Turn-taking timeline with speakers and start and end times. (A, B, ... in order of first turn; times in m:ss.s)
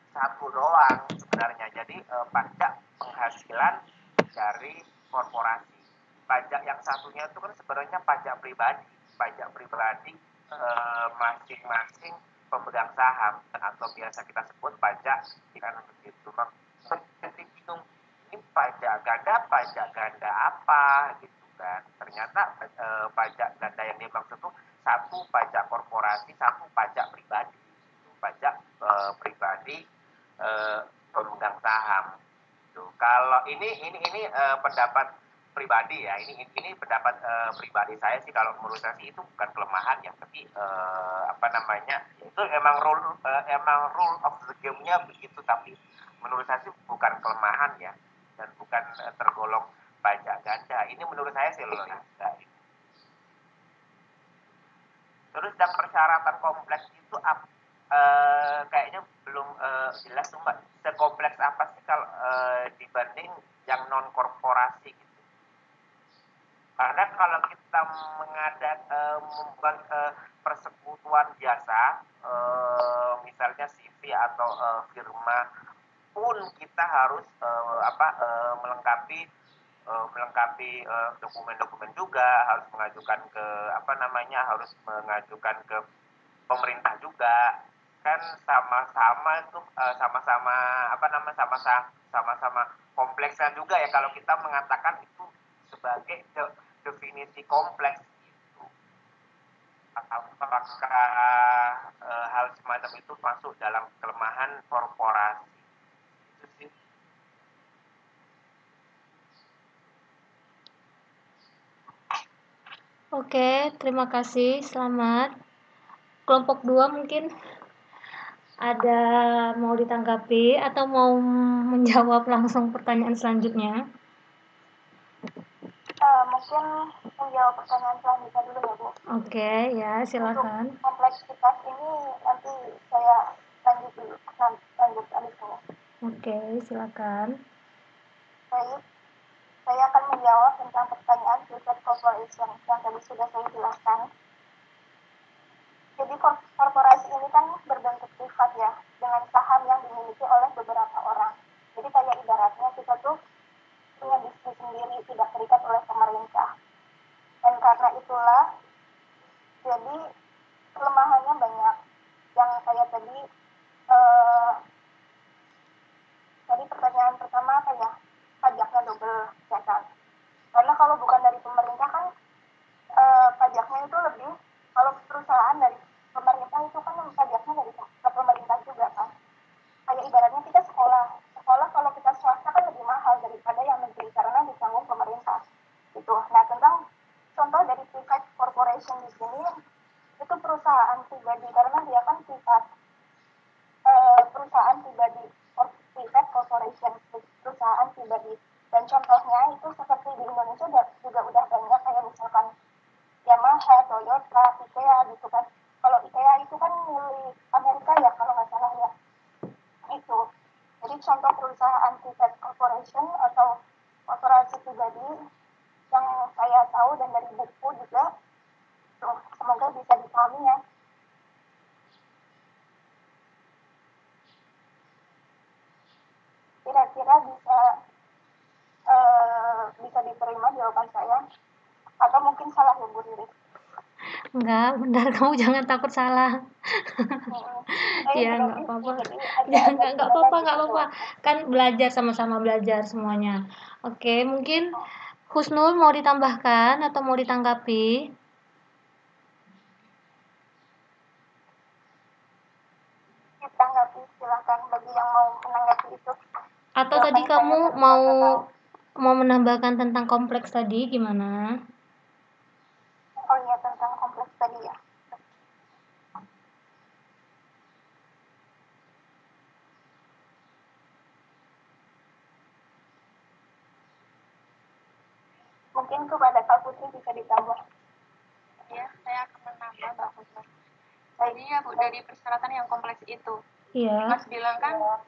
0:00.1-0:03.8 A
0:04.4-0:29.8 A
0:30.4-0:32.1 A
0:32.8-0:52.5 A
0:55.3-1:05.2 A
1:06.8-1:15.4 A
1:16.2-1:19.2 A
1:19.9-1:25.8 A
1:26.5-1:38.7 A
1:40.0-1:45.6 A
1:46.3-1:46.7 A
1:53.2-1:55.3 B
1:56.3-1:57.3 B
1:58.7-1:59.0 B
1:59.6-2:01.2 B
2:01.7-2:03.8 B
2:06.0-2:06.6 C
2:07.2-2:08.9 C
2:09.2-2:10.8 B
2:10.2-2:15.6 C
2:16.1-2:17.3 B
2:18.5-2:18.8 C
2:19.7-2:24.1 C
2:26.0-2:33.1 C
2:34.0-2:36.5 C
2:37.4-2:38.4 C
2:39.6-2:40.0 C
2:40.8-2:41.8 C
2:42.4-2:43.2 C
2:43.9-2:44.6 C
2:46.5-2:47.9 C
2:48.4-2:49.9 C
2:50.6-2:52.1 C
2:53.0-2:59.1 C
2:59.9-3:05.4 C
3:06.0-3:06.8 C
3:07.4-3:09.5 C
3:10.2-3:12.7 C
3:13.9-3:22.5 C
3:23.3-3:28.9 C
3:29.9-3:30.2 C
3:30.8-3:33.5 C
3:34.1-3:35.1 C
3:35.9-3:38.1 C
3:39.0-3:40.6 C
3:46.7-3:47.6 C
3:48.9-3:51.2 C
3:52.0-3:53.3 C
3:54.4-3:56.3 B
3:57.3-4:00.9 C
3:58.1-4:04.8 B
4:05.3-4:07.9 B
4:13.4-4:16.2 C
4:16.8-4:18.2 B
4:16.9-4:18.4 C
4:19.0-4:21.4 B
4:23.3-4:24.8 C
4:35.8-4:37.6 C
4:38.7-4:40.5 D
4:41.3-4:43.4 D
4:43.8-4:44.2 B
4:44.1-4:44.9 D